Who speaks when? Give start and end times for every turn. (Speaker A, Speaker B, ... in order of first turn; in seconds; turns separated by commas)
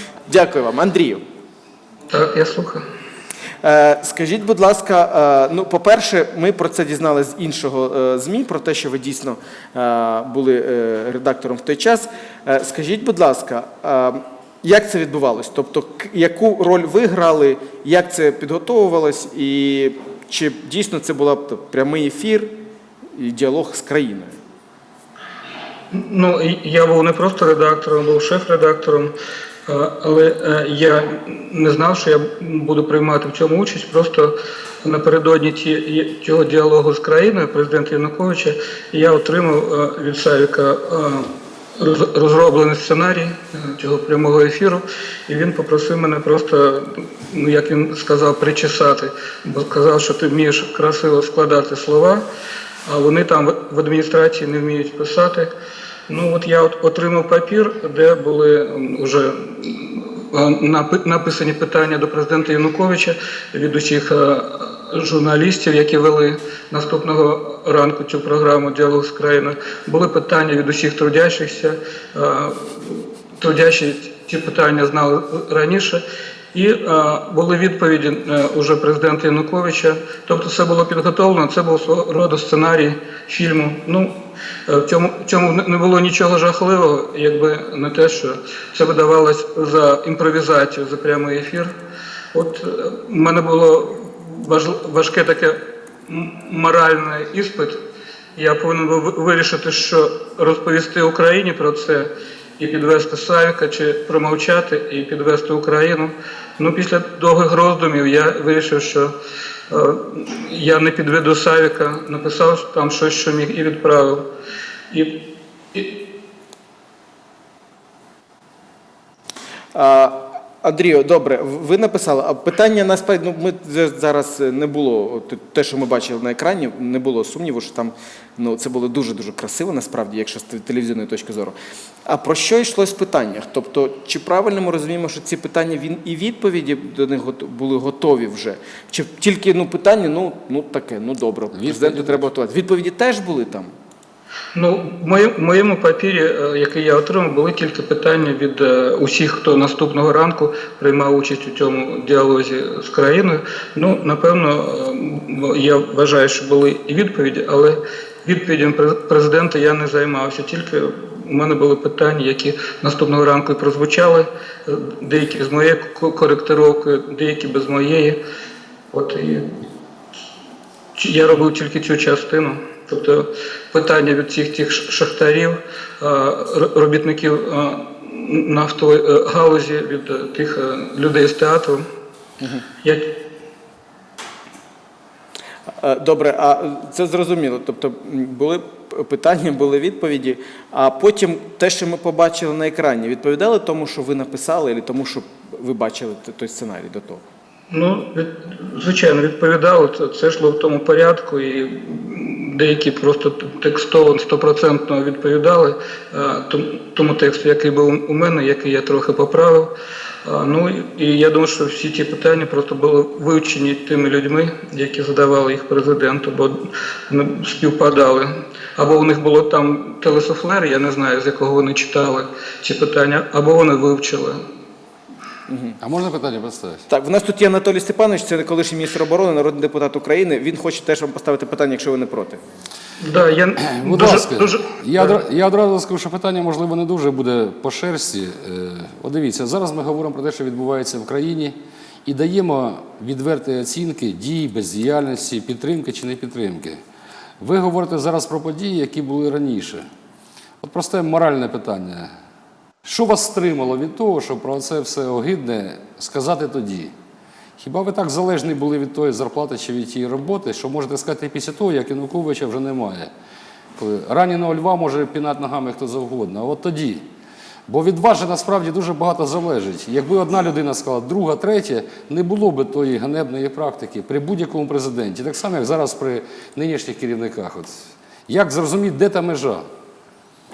Speaker A: 0.3-1.2, Speaker B: 2.1-2.8, Speaker A: 3.6-22.5, Speaker A: 23.1-24.3, Speaker B: 25.9-29.1, Speaker B: 29.7-52.2, Speaker B: 52.9-55.5, Speaker B: 56.1-76.0, Speaker B: 76.5-91.7, Speaker B: 92.3-97.8, Speaker B: 98.4-109.1, Speaker B: 109.7-114.3, Speaker B: 114.9-116.0, Speaker A: 119.7-131.6, Speaker A: 132.1-143.7, Speaker C: 141.6-142.2, Speaker B: 144.6-168.2, Speaker B: 168.9-169.6, Speaker B: 170.9-181.8, Speaker B: 182.8-183.2, Speaker A: 185.8-197.2, Speaker B: 197.7-209.7, Speaker B: 210.2-224.4, Speaker A: 225.5-225.8, Speaker C: 225.8-226.8, Speaker A: 226.9-232.4, Speaker B: 233.0-235.2, Speaker C: 233.6-241.5, Speaker C: 242.1-246.8, Speaker C: 247.4-249.8, Speaker C: 250.6-252.1, Speaker C: 252.8-256.9, Speaker C: 257.6-263.1, Speaker C: 263.8-267.0, Speaker C: 267.7-279.6